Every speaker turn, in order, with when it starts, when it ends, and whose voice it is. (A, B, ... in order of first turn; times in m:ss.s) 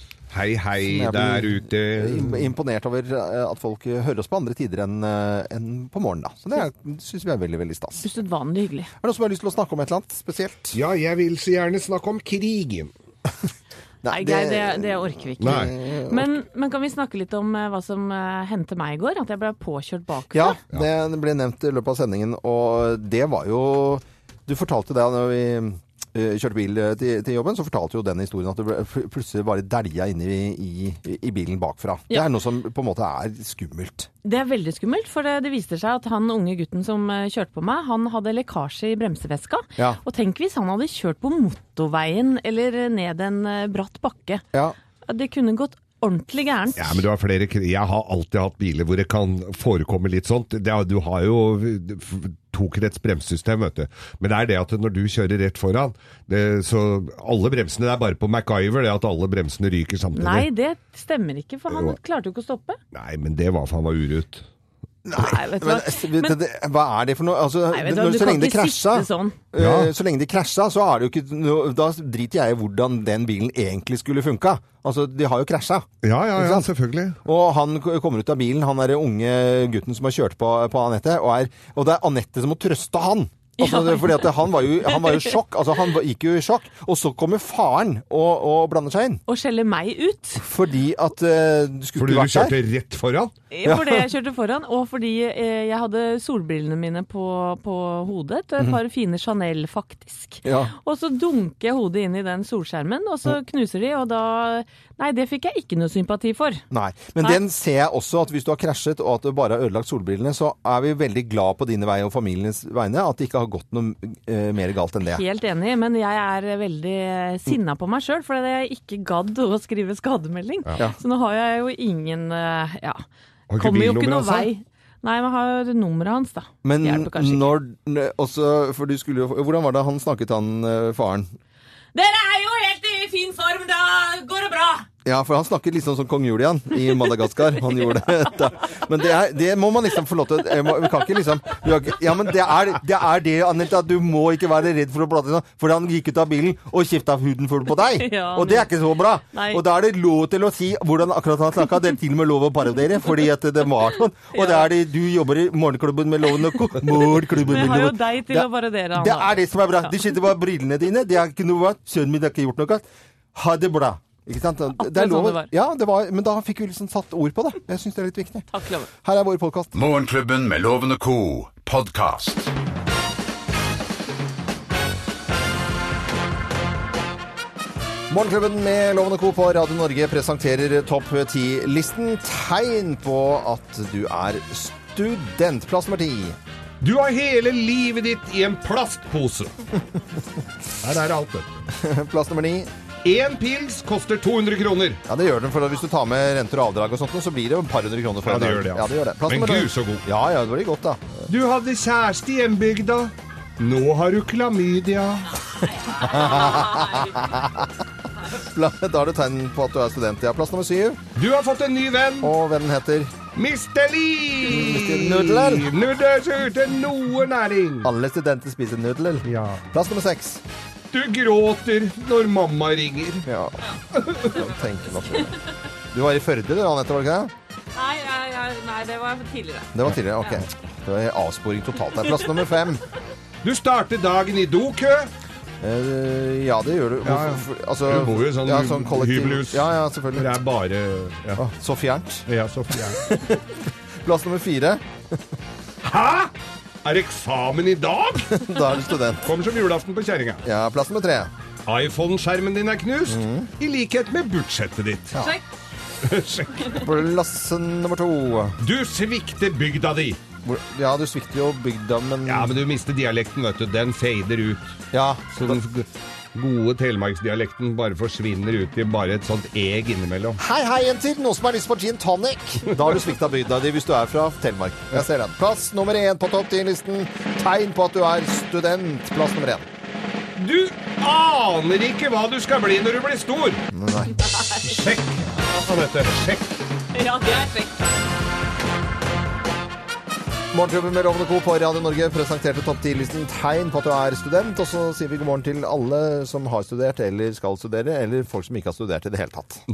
0:00.3-0:02.5 A
0:00.8-0:08.0 B
0:08.0-0:08.9 C
0:09.0-0:10.8 B
0:10.7-0:12.9 A
0:14.0-0:16.2 B
0:14.1-0:20.6 C
0:15.4-0:15.7 A
0:20.3-0:34.1 B
0:34.2-0:44.4 C
0:45.1-0:47.0 C
0:46.8-1:00.5 A
1:00.1-1:02.8 C
1:01.7-1:02.0 A
1:02.9-1:04.4 A
1:05.0-1:16.7 B
1:05.1-1:06.4 C
1:07.7-1:09.4 C
1:09.6-1:09.9 A
1:16.0-1:17.2 A
1:17.2-1:29.2 B
1:23.6-1:24.3 C
1:24.8-1:25.3 C
1:29.3-1:30.4 C
1:30.4-1:32.6 B
1:32.0-1:33.3 A
1:33.5-1:46.6 C
1:33.6-1:34.1 B
1:40.4-1:40.7 B
1:46.7-1:55.2 B
1:55.0-2:03.0 C
2:03.5-2:04.5 A
2:03.6-2:07.5 C
2:06.6-2:11.3 B
2:11.9-2:14.8 C
2:15.0-2:48.4 B
2:27.9-2:28.7 C
2:29.3-2:29.6 C
2:34.3-2:34.7 C
2:37.3-2:39.9 C
2:44.8-2:45.5 C
2:48.5-2:48.9 C
2:49.0-2:49.7 B
2:49.7-2:52.5 D
2:58.1-3:06.4 B
3:06.8-3:09.5 A
3:10.8-3:11.5 A
3:11.7-3:12.7 B
3:13.0-3:15.0 A
3:15.1-3:21.2 B
3:18.2-3:20.0 A
3:21.3-3:25.3 A
3:25.8-3:27.2 C
3:26.0-3:27.6 B
3:28.3-3:31.0 B
3:31.2-3:32.3 A
3:32.2-3:33.2 B
3:33.3-3:37.9 A
3:34.4-3:35.7 B
3:37.8-3:40.4 B
3:39.2-3:39.6 A
3:40.9-3:43.2 A
3:43.2-3:45.3 B
3:43.9-3:44.4 A
3:45.9-3:47.3 B
3:47.8-3:49.7 C
3:49.7-3:52.8 B
3:53.4-3:55.1 A
3:55.6-4:00.4 B
3:57.0-4:01.4 A
4:01.4-4:02.2 B
4:02.3-4:03.0 A
4:02.8-4:05.2 B
4:05.8-4:06.3 A
4:06.8-4:08.5 A
4:08.3-4:09.3 B
4:09.2-4:10.4 A
4:10.4-4:11.3 B
4:11.6-4:15.2 A
4:13.1-4:13.5 B
4:16.0-4:16.8 A
4:16.7-4:18.6 B
4:18.6-4:20.2 A
4:20.4-4:22.5 B
4:22.2-4:24.8 A
4:24.9-4:25.6 B
4:25.3-4:30.4 A
4:30.4-4:39.7 B
4:40.4-4:43.6 A
4:43.7-4:44.2 B
4:44.6-4:46.6 A
4:46.9-4:47.8 C
4:50.5-4:59.6 B